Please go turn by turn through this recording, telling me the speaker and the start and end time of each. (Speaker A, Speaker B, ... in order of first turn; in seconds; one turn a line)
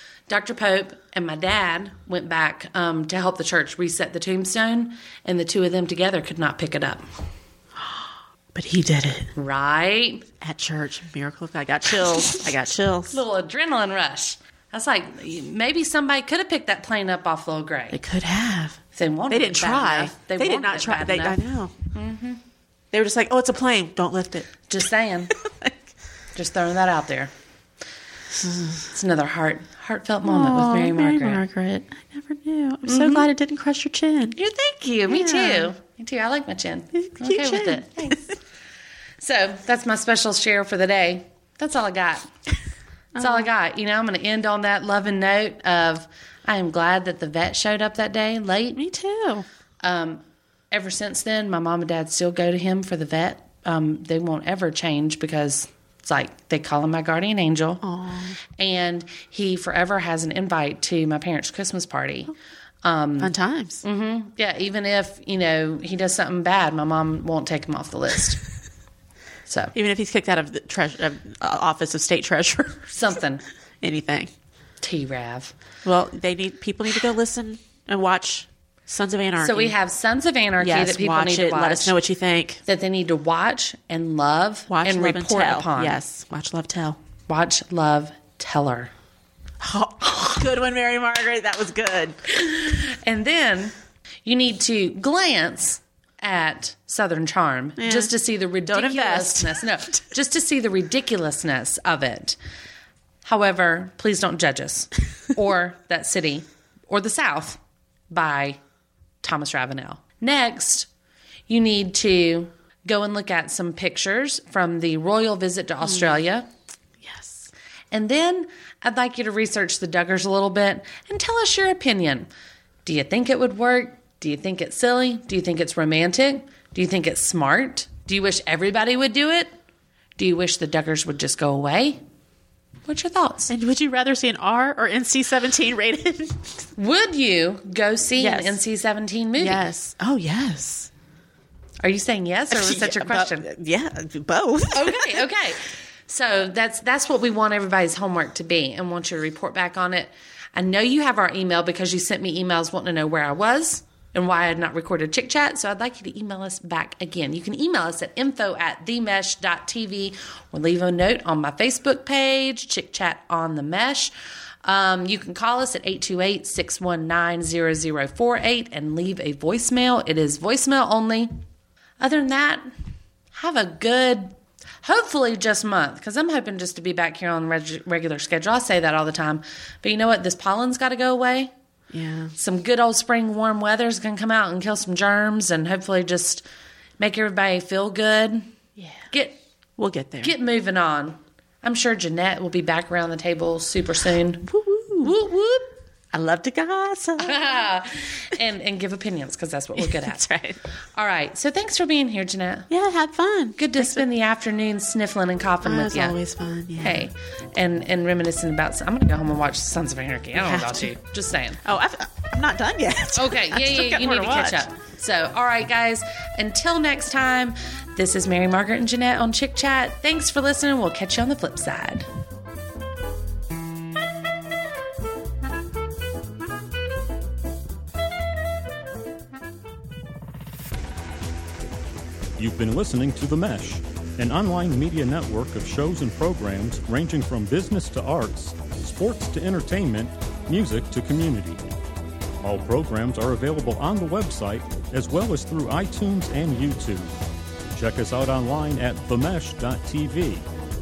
Speaker A: 0.3-7.0
Speaker B: 7.8-9.3
Speaker A: 9.3-10.3
Speaker B: 10.4-13.2
Speaker A: 13.1-18.0
Speaker B: 17.9-21.7
Speaker A: 18.9-21.4
Speaker A: 21.9-22.4
Speaker B: 22.9-24.5
Speaker A: 24.7-25.3
Speaker B: 25.3-25.8
Speaker A: 26.3-27.3
Speaker B: 28.4-28.8
Speaker A: 28.9-31.4
Speaker B: 30.2-34.4
Speaker A: 32.8-33.3
Speaker A: 34.3-38.4
Speaker B: 35.1-35.7
Speaker B: 36.9-38.2
Speaker A: 39.2-42.3
Speaker A: 43.1-48.8
Speaker B: 43.2-43.5
Speaker B: 48.7-49.5
Speaker A: 49.8-57.8
Speaker B: 57.8-58.4
Speaker A: 58.5-62.3
Speaker A: 62.8-68.4
Speaker B: 63.2-63.8
Speaker A: 69.5-69.7
Speaker B: 69.7-73.0
Speaker A: 72.9-73.4
Speaker B: 73.8-74.3
Speaker A: 74.8-75.5
Speaker B: 75.8-79.8
Speaker A: 79.4-81.9
Speaker B: 80.6-82.6
Speaker A: 82.6-86.0
Speaker B: 84.7-87.0
Speaker A: 87.3-88.9
Speaker B: 89.6-92.2
Speaker A: 92.3-102.3
Speaker B: 97.8-98.1
Speaker B: 98.7-99.9
Speaker A: 103.2-108.6
Speaker A: 109.2-110.9
Speaker A: 111.5-116.5
Speaker B: 115.8-116.2
Speaker B: 117.0-117.5
Speaker A: 117.9-122.3
Speaker A: 122.8-129.5
Speaker A: 130.2-132.0
Speaker A: 132.9-133.5
Speaker B: 133.5-136.7
Speaker A: 136.8-139.6
Speaker B: 138.2-138.6
Speaker B: 139.4-140.9
Speaker A: 141.8-143.5
Speaker B: 142.5-145.3
Speaker A: 144.7-164.1
Speaker A: 164.6-171.3
Speaker A: 172.0-172.7
Speaker A: 173.3-181.5
Speaker B: 181.9-182.3
Speaker A: 182.3-186.4
Speaker A: 187.0-188.5
Speaker B: 188.8-189.0
Speaker A: 189.1-189.4
Speaker B: 189.8-190.3
Speaker A: 190.2-195.8
Speaker B: 194.5-195.1
Speaker B: 196.1-197.7
Speaker A: 197.2-200.2
Speaker B: 199.8-200.6
Speaker A: 200.9-202.7
Speaker B: 202.7-204.0
Speaker A: 203.6-206.2
Speaker B: 205.6-207.0
Speaker A: 206.8-211.6
Speaker B: 210.3-210.9
Speaker B: 211.6-214.7
Speaker A: 213.2-222.1
Speaker C: 232.4-241.7
Speaker C: 242.4-247.1
Speaker C: 247.7-250.4